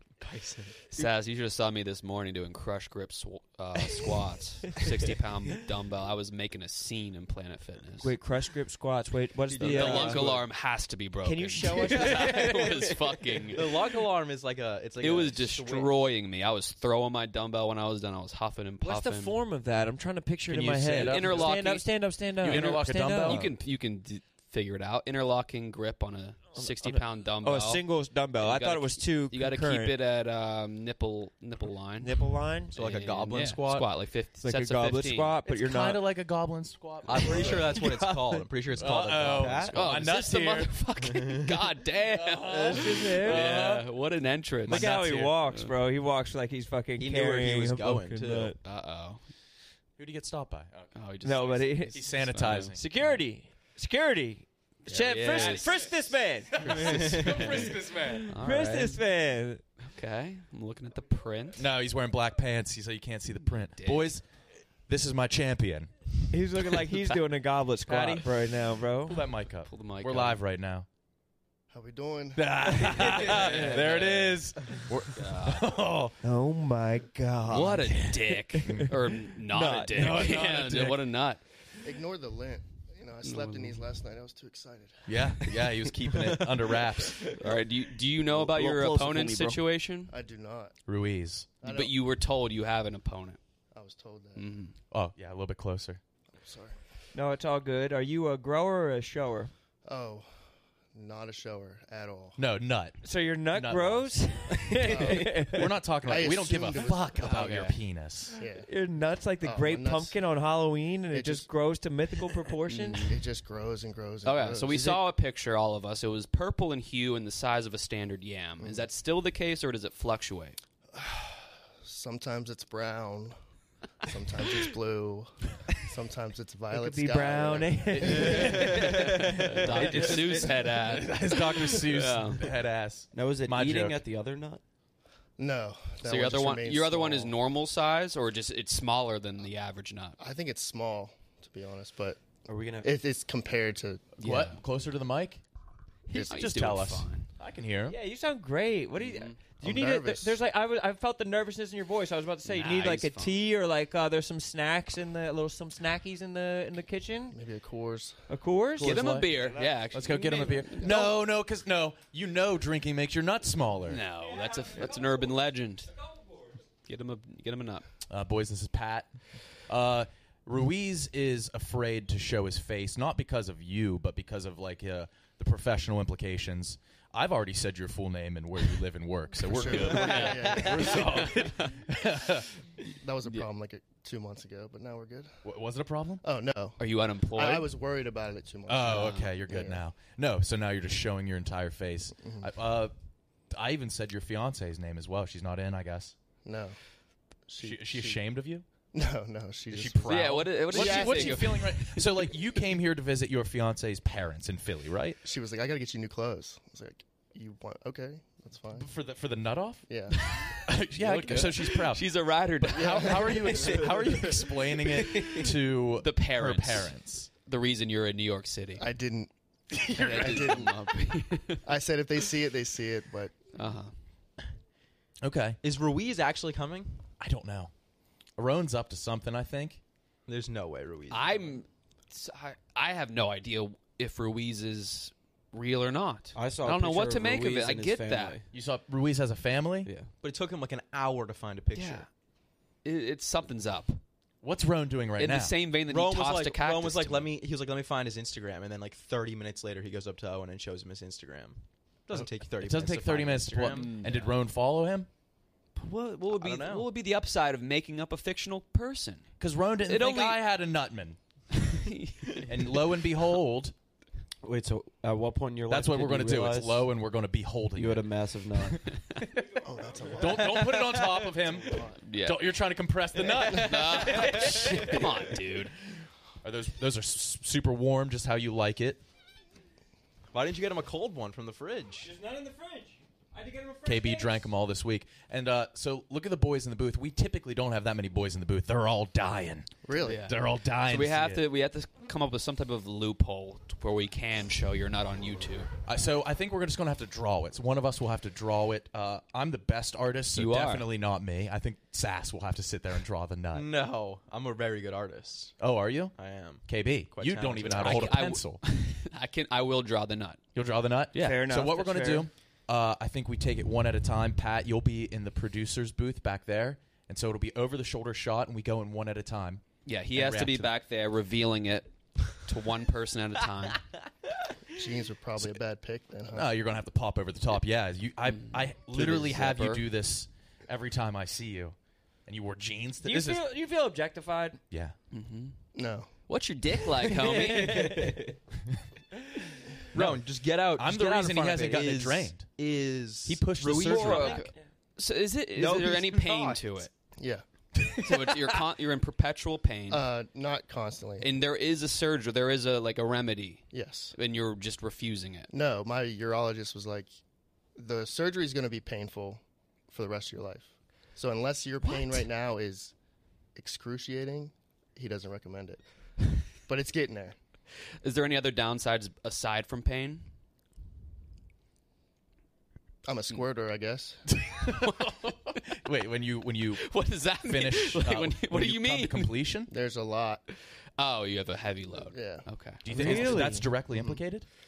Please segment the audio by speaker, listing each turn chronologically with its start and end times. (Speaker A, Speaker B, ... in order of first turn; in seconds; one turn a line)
Speaker A: 0.2-0.7
Speaker B: 0.9-8.1
Speaker C: 8.0-10.4
Speaker A: 9.5-10.5
Speaker B: 9.6-13.7
Speaker C: 11.2-12.8
Speaker A: 11.9-12.8
Speaker A: 13.5-15.9
Speaker B: 15.0-19.4
Speaker C: 18.8-23.5
Speaker D: 20.5-21.7
Speaker B: 21.0-35.4
Speaker D: 22.4-23.5
Speaker C: 26.5-30.0
Speaker C: 32.0-32.7
Speaker A: 32.7-33.9
Speaker C: 34.4-36.0
Speaker D: 35.4-38.0
Speaker C: 37.1-38.4
Speaker A: 37.1-39.8
Speaker D: 38.7-40.9
Speaker B: 39.7-45.7
Speaker D: 42.1-43.9
Speaker C: 42.5-43.6
Speaker C: 44.6-48.6
Speaker D: 44.6-45.0
Speaker A: 47.0-48.5
Speaker B: 48.6-49.3
Speaker D: 50.0-51.1
Speaker B: 50.9-53.2
Speaker C: 51.2-59.6
Speaker D: 51.9-52.9
Speaker B: 54.9-56.1
Speaker D: 55.3-55.8
Speaker D: 56.5-58.3
Speaker A: 56.6-57.5
Speaker B: 58.3-59.0
Speaker B: 59.9-61.6
Speaker D: 61.6-64.3
Speaker B: 63.8-64.1
Speaker D: 64.8-67.1
Speaker C: 66.3-69.3
Speaker D: 67.8-70.8
Speaker B: 69.7-70.4
Speaker E: 71.7-73.1
Speaker D: 72.3-76.2
Speaker B: 73.1-75.7
Speaker C: 73.5-74.0
Speaker C: 76.2-80.4
Speaker B: 77.5-81.4
Speaker D: 78.6-78.9
Speaker D: 79.9-81.0
Speaker E: 81.8-85.5
Speaker B: 83.2-83.8
Speaker D: 85.1-87.3
Speaker B: 87.3-90.1
Speaker F: 88.3-89.6
Speaker E: 90.1-90.8
Speaker D: 90.8-91.6
Speaker E: 91.6-91.9
Speaker B: 91.6-93.4
Speaker E: 93.7-94.5
Speaker B: 94.3-94.7
Speaker D: 94.9-96.0
Speaker E: 96.4-96.7
Speaker C: 97.1-99.5
Speaker E: 99.8-100.3
Speaker E: 100.9-102.4
Speaker D: 102.4-108.4
Speaker C: 103.0-105.8
Speaker E: 104.8-107.7
Speaker B: 107.2-107.8
Speaker E: 108.3-108.7
Speaker C: 108.5-113.2
Speaker E: 109.4-110.2
Speaker E: 111.1-111.5
Speaker B: 112.7-113.1
Speaker E: 113.0-115.0
Speaker B: 114.2-120.6
Speaker E: 118.6-118.8
Speaker E: 120.9-123.3
Speaker E: 124.0-128.4
Speaker C: 126.7-129.6
Speaker D: 127.9-128.8
Speaker B: 128.4-132.5
Speaker D: 129.8-134.0
Speaker F: 133.1-134.6
Speaker E: 135.4-137.3
Speaker B: 136.0-140.2
Speaker E: 140.2-142.2
Speaker F: 142.4-142.9
Speaker E: 142.8-144.1
Speaker D: 144.2-145.4
Speaker B: 144.2-144.6
Speaker D: 146.1-147.9
Speaker B: 146.1-147.3
Speaker C: 147.8-157.4
Speaker B: 149.0-149.3
Speaker E: 149.6-150.4
Speaker B: 152.4-153.4
Speaker E: 157.3-158.3
Speaker C: 158.3-161.0
Speaker D: 158.8-164.0
Speaker B: 158.8-161.2
Speaker B: 163.9-165.9
Speaker C: 164.3-165.3
Speaker C: 166.0-166.4
Speaker B: 166.8-167.9
Speaker D: 168.1-169.1
Speaker D: 169.7-182.5
Speaker E: 179.4-181.5
Speaker B: 179.7-181.5
Speaker E: 182.9-185.3
Speaker D: 185.4-186.2
Speaker E: 186.2-186.8
Speaker B: 186.8-187.7
Speaker E: 187.3-189.8
Speaker D: 188.7-192.9
Speaker B: 188.9-189.2
Speaker E: 192.2-192.5
Speaker D: 193.5-196.1
Speaker E: 196.4-196.8
Speaker E: 197.5-198.3
Speaker D: 197.6-198.6
Speaker E: 198.9-201.6
Speaker D: 199.7-205.2
Speaker B: 200.1-202.3
Speaker E: 205.2-208.9
Speaker D: 208.8-217.3
Speaker E: 209.9-210.3
Speaker B: 210.1-213.3
Speaker E: 212.8-213.9
Speaker B: 215.1-215.5
Speaker B: 216.0-218.9
Speaker E: 218.8-219.3
Speaker E: 219.9-220.9
Speaker B: 219.9-221.6
Speaker E: 221.6-223.3
Speaker B: 223.5-223.9
Speaker D: 225.2-225.6
Speaker A: 225.6-227.0
Speaker D: 227.2-227.7
Speaker D: 228.4-229.8
Speaker A: 230.3-231.6
Speaker B: 231.1-238.4
Speaker F: 236.3-238.5
Speaker D: 238.5-239.9
Speaker F: 239.8-240.1
Speaker A: 240.2-242.1
Speaker B: 241.7-242.1
Speaker B: 242.8-244.0
Speaker D: 244.4-245.6
Speaker B: 245.2-247.3
Speaker A: 245.9-254.0
Speaker D: 252.1-255.1
Speaker B: 253.6-254.3
Speaker B: 255.8-259.3
Speaker A: 256.3-256.9
Speaker D: 259.4-261.2
Speaker B: 259.8-260.4
Speaker B: 261.6-262.4
Speaker D: 262.4-263.7
Speaker F: 264.4-266.9
Speaker D: 265.6-269.2
Speaker F: 267.7-268.8
Speaker E: 269.6-272.0
Speaker D: 270.2-274.6
Speaker B: 272.0-272.4
Speaker B: 273.5-275.7
Speaker D: 276.4-279.0
Speaker A: 280.3-282.1
Speaker C: 282.0-284.5
Speaker D: 283.8-289.7
Speaker E: 289.8-290.3
Speaker B: 290.0-295.7
Speaker D: 290.2-291.4
Speaker D: 295.9-303.7
Speaker B: 300.3-300.9
Speaker A: 303.5-305.6
Speaker D: 305.6-308.6
Speaker A: 306.1-308.2
Speaker B: 307.7-310.4
Speaker D: 310.5-320.7
Speaker B: 311.1-311.4
Speaker C: 311.1-312.3
Speaker B: 319.8-323.9
Speaker E: 324.7-326.5
Speaker D: 326.3-333.5
Speaker B: 328.4-329.8
Speaker C: 333.0-334.6
Speaker D: 334.7-334.9
Speaker B: 335.1-335.6
Speaker E: 335.7-336.1
Speaker B: 336.3-338.1
Speaker A: 337.2-338.2
Speaker D: 339.9-342.5
Speaker A: 339.9-344.5
Speaker D: 343.2-344.4
Speaker B: 343.9-346.9
Speaker C: 343.9-344.5
Speaker A: 345.6-346.6
Speaker E: 347.2-347.4
Speaker B: 348.0-350.1
Speaker E: 349.9-351.3
Speaker B: 351.2-355.5
Speaker E: 353.7-354.1
Speaker E: 355.5-357.1
Speaker E: 357.8-362.9
Speaker E: 363.6-365.8
Speaker E: 366.6-367.4
Speaker B: 368.0-370.3
Speaker E: 373.0-374.2
Speaker D: 374.3-375.1
Speaker B: 374.8-375.6
Speaker D: 375.7-376.9
Speaker B: 376.8-379.4
Speaker D: 377.4-379.7
Speaker E: 379.7-380.4
Speaker B: 381.0-383.2
Speaker E: 382.0-384.2
Speaker D: 382.8-384.4
Speaker C: 382.8-383.8